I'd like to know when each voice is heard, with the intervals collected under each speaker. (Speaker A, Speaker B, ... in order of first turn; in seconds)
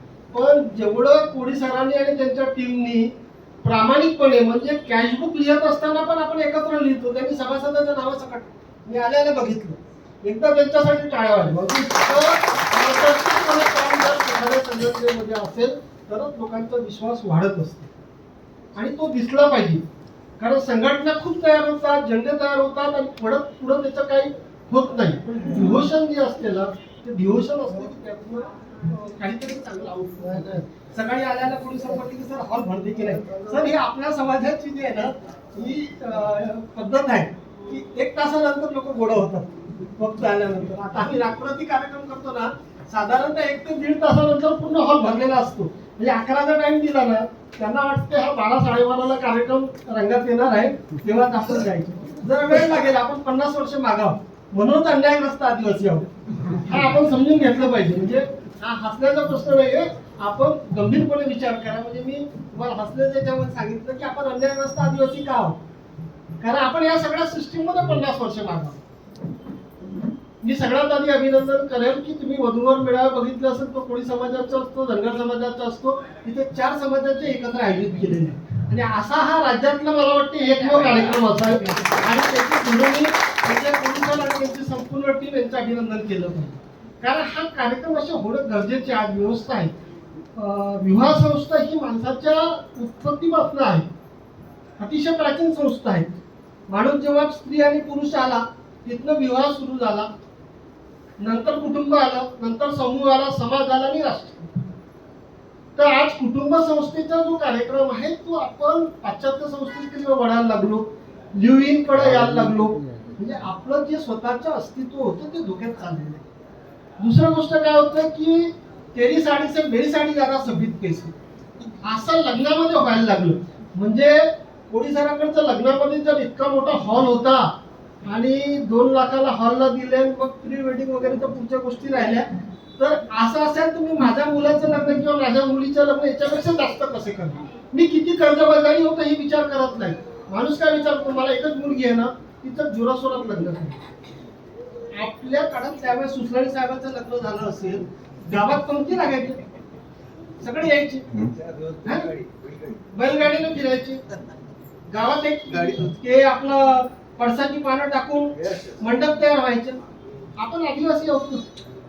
Speaker A: 0.3-17.9, 18.8-19.8, 20.4-56.1, 56.6-65.6, 66.4-68.8, 70.4-89.7, 90.3-93.9, 94.8-100.1, 101.2-104.5, 105.8-116.2, 117.0-121.1, 121.8-127.5, 128.1-143.8, 144.9-149.4, 150.4-151.2, 151.8-152.2, 152.9-154.0, 154.9-159.8, 160.4-161.4